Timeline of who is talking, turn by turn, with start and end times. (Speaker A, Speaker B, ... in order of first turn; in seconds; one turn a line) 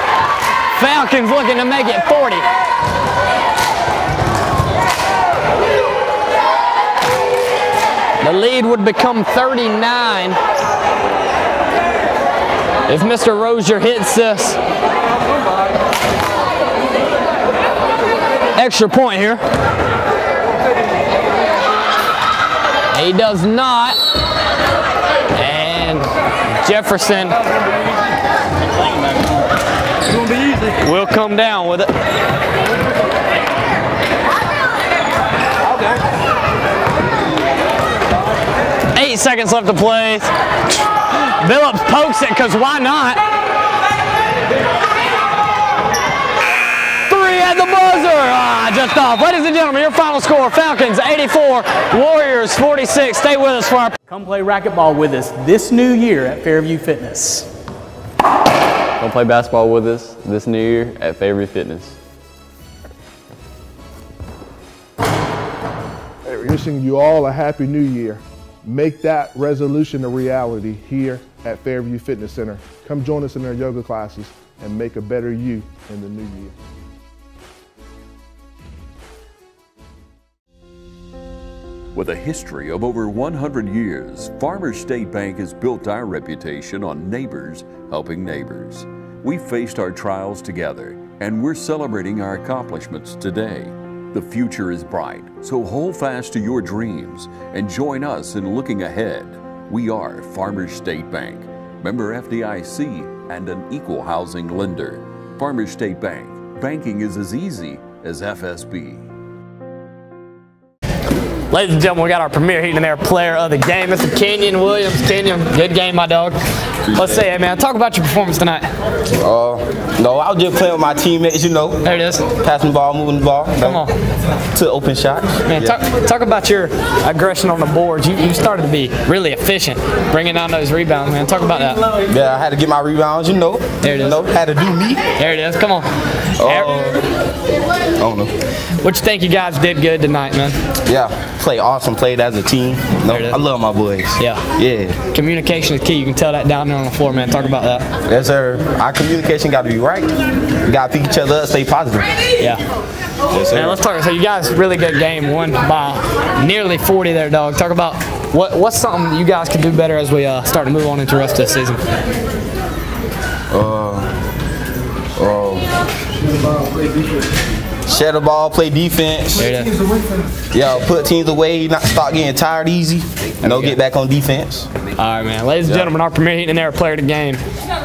Speaker A: 0.7-2.5
Speaker A: 8.2-10.4
Speaker A: 12.9-14.6
Speaker A: 18.5-19.4
Speaker A: 22.9-24.0
Speaker A: 25.3-27.4
Speaker A: 30.8-31.9
Speaker A: 38.9-40.3
Speaker A: 41.4-43.2
Speaker A: 47.1-54.0
Speaker B: 54.1-57.5
Speaker C: 59.0-62.0
Speaker D: 66.2-76.5
Speaker E: 81.9-109.1
Speaker A: 111.5-116.4
Speaker A: 116.9-118.7
Speaker F: 119.2-121.8
Speaker A: 121.8-122.2
Speaker F: 122.3-123.8
Speaker A: 123.6-123.9
Speaker F: 124.5-125.7
Speaker A: 125.5-131.8
Speaker F: 132.1-135.0
Speaker A: 133.8-134.2
Speaker A: 135.2-135.9
Speaker A: 136.4-136.9
Speaker F: 136.4-137.0
Speaker F: 138.0-138.3
Speaker A: 138.8-140.6
Speaker F: 140.9-145.0
Speaker A: 143.1-143.4
Speaker A: 144.2-144.4
Speaker A: 145.1-147.8
Speaker F: 148.1-150.1
Speaker F: 150.7-152.1
Speaker F: 153.3-153.8
Speaker A: 153.5-161.8
Speaker F: 163.5-164.1
Speaker F: 165.2-165.7
Speaker F: 167.9-169.4
Speaker A: 169.4-169.7
Speaker F: 170.5-174.7
Speaker A: 173.4-173.8
Speaker A: 175.0-177.4